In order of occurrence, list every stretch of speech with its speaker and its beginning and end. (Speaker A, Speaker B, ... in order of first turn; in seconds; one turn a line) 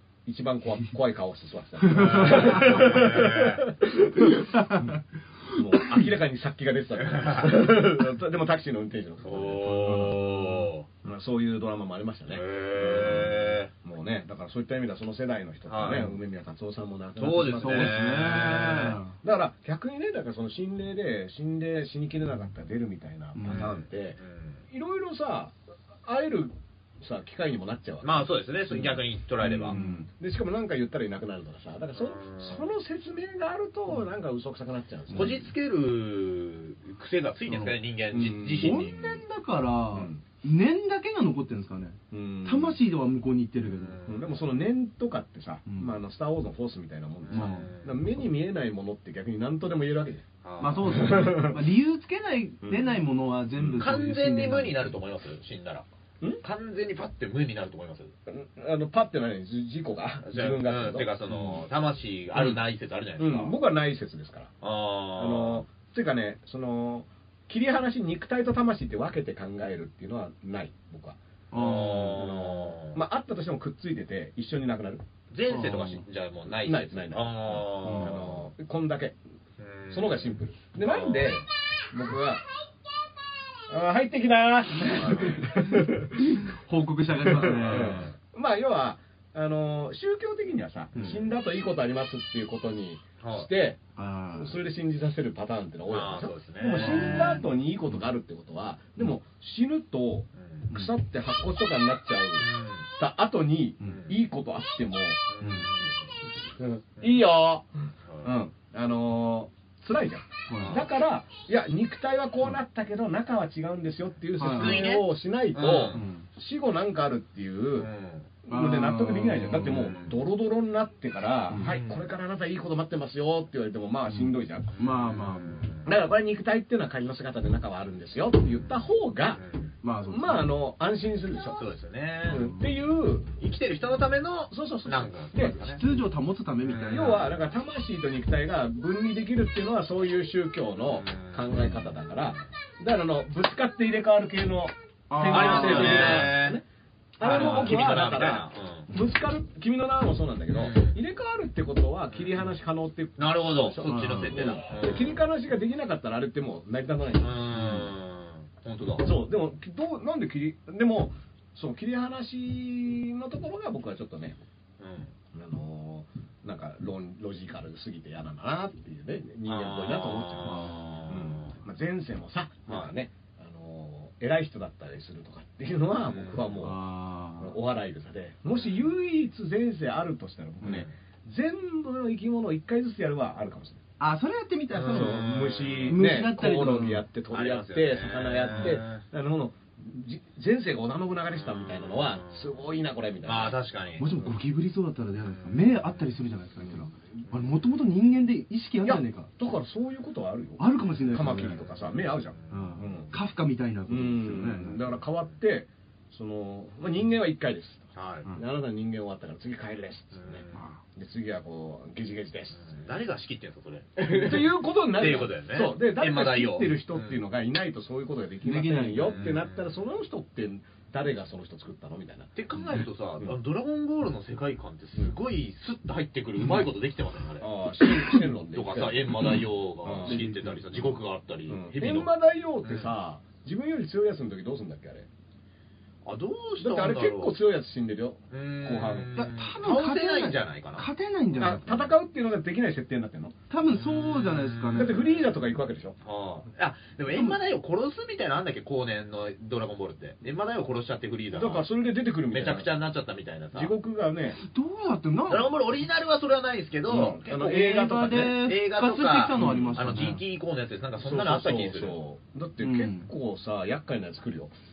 Speaker A: 0.2-5.0
Speaker B: 1.8-3.0
Speaker C: 1.9-3.7
Speaker B: 4.2-6.0
Speaker A: 5.5-10.2
Speaker C: 7.0-7.5
Speaker C: 9.2-10.9
Speaker B: 9.7-10.7
Speaker A: 11.0-24.2
Speaker C: 12.3-13.7
Speaker C: 15.7-16.1
Speaker C: 17.2-19.0
Speaker B: 17.6-19.1
Speaker B: 23.4-23.7
Speaker C: 23.4-24.6
Speaker A: 24.7-35.5
Speaker C: 28.0-29.8
Speaker B: 29.7-30.1
Speaker C: 32.0-32.6
Speaker C: 35.1-39.1
Speaker B: 37.5-37.8
Speaker A: 38.1-39.0
Speaker B: 38.6-44.0
Speaker A: 39.9-40.2
Speaker A: 42.1-42.8
Speaker C: 43.7-44.3
Speaker A: 44.1-50.2
Speaker B: 45.7-46.0
Speaker C: 47.3-48.0
Speaker B: 47.3-47.7
Speaker C: 50.4-51.3
Speaker B: 50.6-54.9
Speaker A: 50.9-51.6
Speaker A: 52.6-53.0
Speaker A: 53.6-53.9
Speaker C: 53.8-55.9
Speaker C: 56.4-58.1
Speaker A: 58.3-61.6
Speaker C: 60.2-63.6
Speaker A: 63.2-64.5
Speaker C: 64.6-65.6
Speaker A: 65.2-75.0
Speaker B: 71.5-72.2
Speaker C: 71.6-73.0
Speaker C: 75.3-78.4
Speaker B: 75.5-76.0
Speaker A: 76.5-79.2
Speaker B: 77.8-78.2
Speaker C: 79.6-81.4
Speaker A: 79.9-82.5
Speaker A: 83.7-86.5
Speaker C: 84.9-85.5
Speaker B: 85.4-88.1
Speaker A: 87.2-93.8
Speaker C: 87.4-88.1
Speaker B: 91.0-91.2
Speaker C: 93.2-93.5
Speaker B: 94.0-94.6
Speaker A: 94.4-102.5
Speaker C: 95.9-97.5
Speaker B: 96.7-97.5
Speaker C: 100.4-100.7
Speaker C: 102.4-102.9
Speaker A: 103.0-105.2
Speaker B: 103.8-104.1
Speaker C: 103.9-104.1
Speaker C: 105.3-106.1
Speaker B: 105.4-105.7
Speaker A: 106.6-117.9
Speaker C: 108.1-108.3
Speaker B: 110.5-110.8
Speaker C: 110.6-110.9
Speaker B: 114.4-114.9
Speaker C: 114.5-116.0
Speaker B: 115.9-116.3
Speaker C: 117.8-118.3
Speaker A: 118.5-124.7
Speaker B: 118.5-119.9
Speaker C: 119.6-120.2
Speaker C: 121.6-122.0
Speaker B: 124.1-125.7
Speaker C: 124.8-125.9
Speaker A: 125.8-129.4
Speaker C: 129.4-129.7
Speaker B: 129.8-130.5
Speaker A: 130.1-131.6
Speaker C: 131.6-132.6
Speaker A: 132.3-133.3
Speaker B: 132.3-132.6
Speaker C: 133.4-135.8
Speaker A: 134.5-135.6
Speaker B: 135.4-137.3
Speaker C: 136.6-137.3
Speaker A: 136.9-146.6
Speaker C: 140.9-142.4
Speaker B: 145.1-146.4
Speaker C: 145.3-146.6
Speaker A: 147.2-157.5
Speaker B: 147.2-147.9
Speaker C: 147.2-148.9
Speaker C: 150.5-151.0
Speaker C: 153.2-155.2
Speaker B: 153.8-154.6
Speaker C: 157.2-159.1
Speaker B: 157.5-157.9
Speaker A: 159.0-164.4
Speaker C: 164.8-165.1
Speaker A: 165.3-176.8
Speaker C: 169.4-171.6
Speaker C: 176.1-176.4
Speaker B: 176.6-177.6
Speaker A: 177.4-183.8
Speaker C: 180.6-180.9
Speaker B: 184.0-187.1
Speaker C: 184.8-186.0
Speaker A: 184.8-193.6
Speaker C: 187.3-189.0
Speaker C: 191.4-192.6
Speaker C: 193.2-194.1
Speaker B: 194.0-199.3
Speaker C: 195.3-196.1
Speaker A: 198.8-203.1
Speaker B: 200.6-201.6
Speaker C: 201.4-202.9
Speaker B: 202.5-204.9
Speaker A: 203.9-210.4
Speaker C: 207.9-208.3
Speaker C: 210.2-210.6
Speaker B: 210.5-210.8
Speaker A: 210.9-212.6
Speaker C: 212.6-217.2
Speaker A: 214.0-223.3
Speaker B: 218.4-219.3
Speaker C: 219.1-219.7
Speaker C: 222.4-232.1
Speaker A: 227.4-230.2
Speaker B: 230.1-230.9
Speaker A: 231.5-235.1
Speaker C: 232.6-232.9
Speaker C: 236.1-237.4
Speaker A: 236.6-239.2
Speaker C: 238.3-240.9
Speaker B: 239.2-241.9
Speaker A: 241.4-243.3
Speaker B: 243.5-245.0
Speaker C: 243.7-245.3
Speaker A: 244.7-246.0
Speaker C: 246.0-251.7
Speaker B: 247.1-247.4
Speaker A: 251.3-252.7
Speaker C: 252.3-253.7
Speaker A: 253.5-254.4
Speaker B: 254.4-255.7
Speaker C: 255.3-262.0
Speaker A: 256.9-258.4
Speaker B: 256.9-260.2
Speaker A: 259.4-259.9
Speaker A: 261.0-264.5
Speaker B: 262.6-263.1